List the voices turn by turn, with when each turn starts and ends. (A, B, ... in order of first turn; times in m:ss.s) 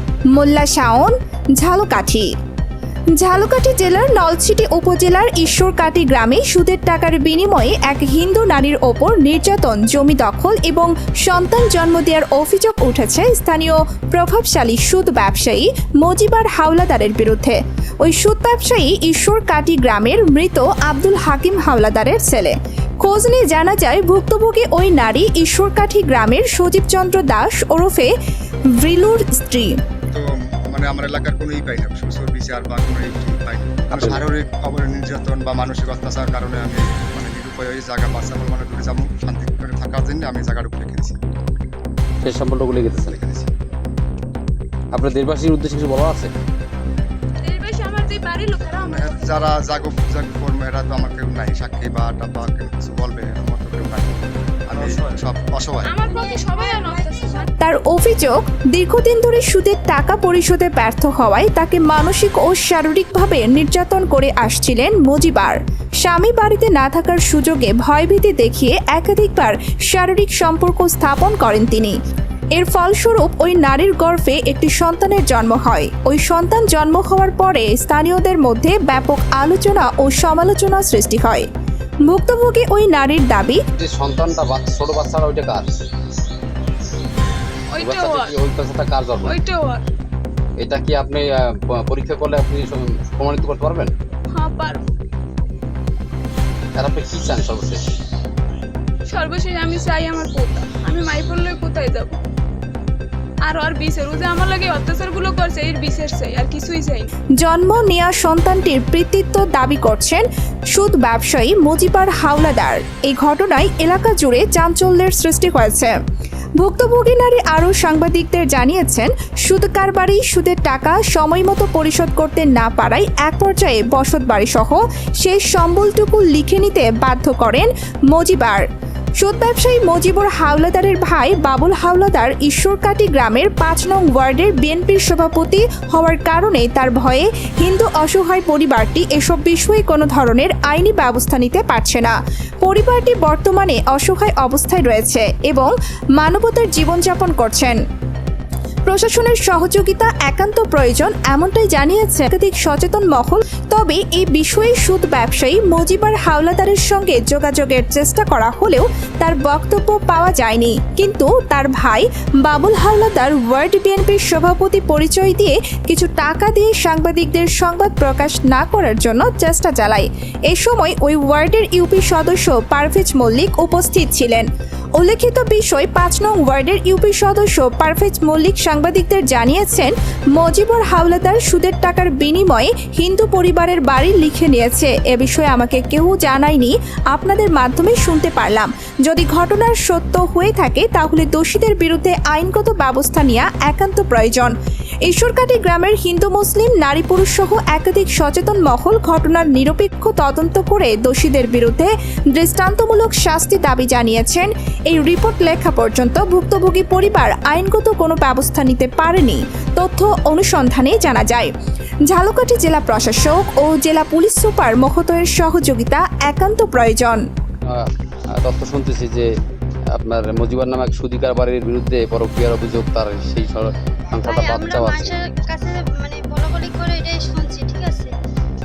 0:00.3-0:02.3 A
0:03.2-0:28.1 A
0:28.8-0:29.8 A
0:30.1-0:41.2 B
0:33.9-0:34.2 C
0:42.2-0:43.2 C
0:43.0-0:43.5 B
0:44.9-0:46.3 C
0:47.4-0:49.5 D
0:48.8-0:55.9 B
0:55.8-0:57.5 D
0:57.6-1:12.0 A
1:12.5-1:21.4 A
1:22.0-1:23.6 A
1:23.8-1:25.7 C
1:27.7-1:28.3 D
1:27.8-1:29.3 C
1:29.2-1:29.8 D
1:30.6-1:33.9 C
1:34.3-1:35.0 D
1:36.7-1:37.8 C
1:39.1-1:42.2 D
1:43.4-1:47.1 D
1:47.4-1:55.9 A
1:56.6-2:08.6 A
2:09.2-2:27.8 A
2:28.8-3:14.5 A
3:15.0-3:31.5 A
3:32.1-3:37.2 A
3:37.6-3:39.3 C
3:39.9-3:45.2 C
3:44.2-3:48.1 E